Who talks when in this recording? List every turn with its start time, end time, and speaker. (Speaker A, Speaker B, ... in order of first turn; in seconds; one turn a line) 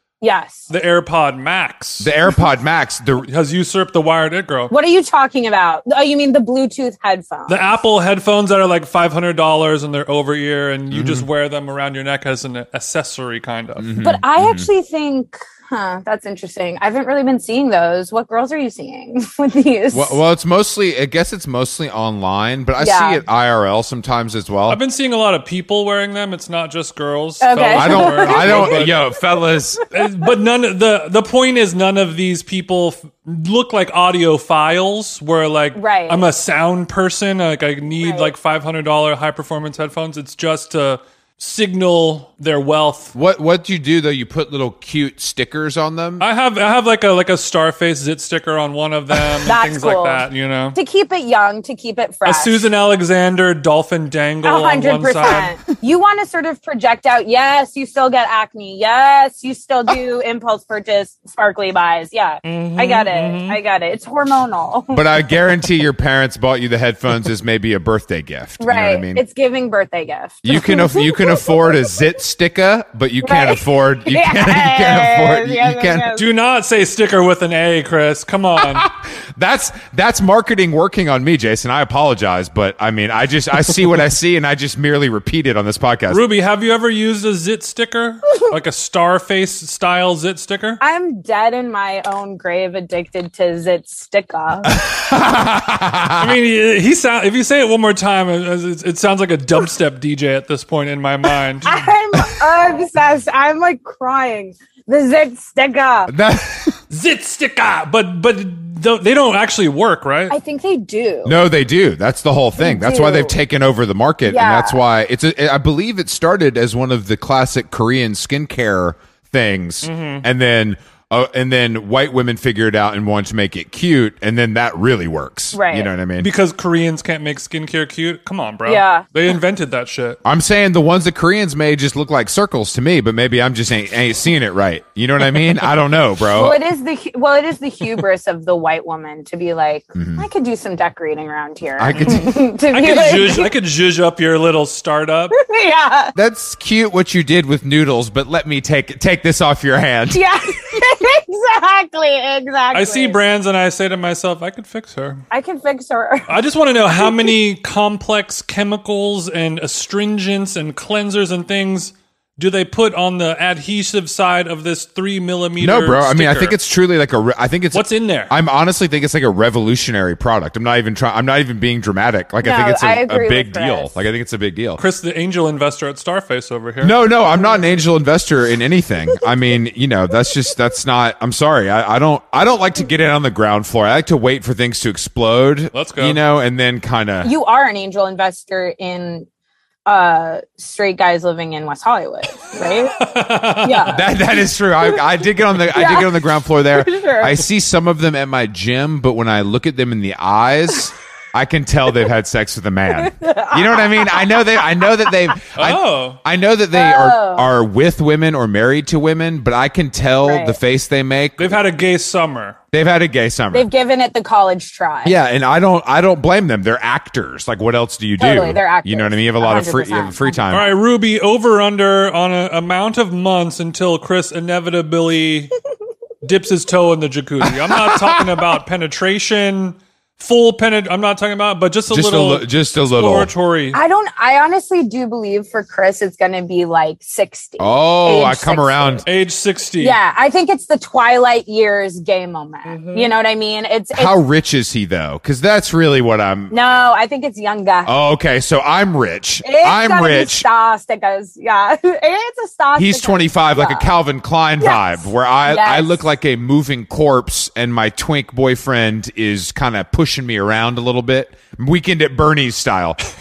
Speaker A: 0.2-0.7
Speaker B: 0.7-2.1
Speaker C: 2.0-3.3
Speaker B: 3.2-4.7
Speaker A: 4.7-7.8
Speaker B: 7.5-13.9
Speaker C: 10.9-11.3
Speaker C: 13.8-14.7
Speaker A: 14.0-20.2
Speaker C: 19.9-24.8
Speaker A: 22.8-23.2
Speaker B: 24.7-29.0
Speaker A: 27.4-28.9
Speaker C: 27.7-29.8
Speaker A: 29.8-30.1
Speaker B: 29.9-43.1
Speaker A: 35.7-36.3
Speaker A: 38.0-38.3
Speaker C: 43.1-46.2
Speaker B: 46.2-50.8
Speaker A: 49.4-52.6
Speaker B: 52.2-55.5
Speaker A: 54.4-65.0
Speaker B: 62.4-63.6
Speaker C: 64.9-69.2
Speaker A: 68.6-71.5
Speaker C: 70.4-76.1
Speaker A: 73.2-76.3
Speaker B: 76.1-78.9
Speaker C: 78.6-86.2
Speaker B: 86.1-90.8
Speaker A: 90.8-94.8
Speaker C: 94.7-96.4
Speaker B: 96.2-101.8
Speaker A: 101.6-106.1
Speaker C: 106.1-106.8
Speaker B: 106.9-110.4
Speaker A: 110.3-111.4
Speaker C: 111.2-126.3
Speaker A: 112.6-113.3
Speaker A: 114.2-114.8
Speaker B: 119.8-120.2
Speaker A: 125.5-125.9
Speaker B: 126.2-130.2
Speaker A: 128.7-129.1
Speaker C: 130.2-136.6
Speaker A: 136.3-143.5
Speaker C: 139.9-140.2
Speaker C: 141.8-142.3
Speaker B: 141.9-145.3
Speaker A: 145.3-146.1
Speaker C: 146.1-150.2
Speaker A: 150.1-153.2
Speaker B: 152.7-155.2
Speaker A: 155.3-156.3
Speaker B: 156.3-166.6
Speaker C: 165.6-174.8
Speaker B: 167.7-168.3
Speaker A: 172.4-173.9
Speaker B: 174.8-177.0
Speaker C: 176.8-187.3
Speaker B: 185.7-186.2
Speaker A: 187.2-189.3
Speaker A: 189.9-193.0
Speaker B: 192.9-194.0
Speaker A: 193.6-194.1
Speaker C: 193.9-211.6
Speaker A: 195.7-197.4
Speaker A: 203.0-204.4
Speaker B: 205.6-206.2
Speaker A: 206.7-207.5
Speaker A: 210.2-210.6
Speaker B: 211.4-212.6
Speaker C: 212.7-213.7
Speaker A: 213.5-215.2
Speaker C: 215.0-220.7
Speaker A: 218.2-220.6
Speaker B: 220.5-225.5
Speaker B: 226.2-233.8
Speaker C: 227.6-228.2
Speaker C: 231.9-233.3
Speaker A: 233.7-239.0
Speaker C: 237.6-239.0
Speaker B: 239.1-240.0
Speaker A: 239.8-244.2
Speaker C: 243.9-246.5
Speaker A: 246.5-247.9
Speaker C: 247.9-250.4
Speaker A: 249.4-253.9
Speaker C: 252.7-263.0
Speaker A: 254.6-256.0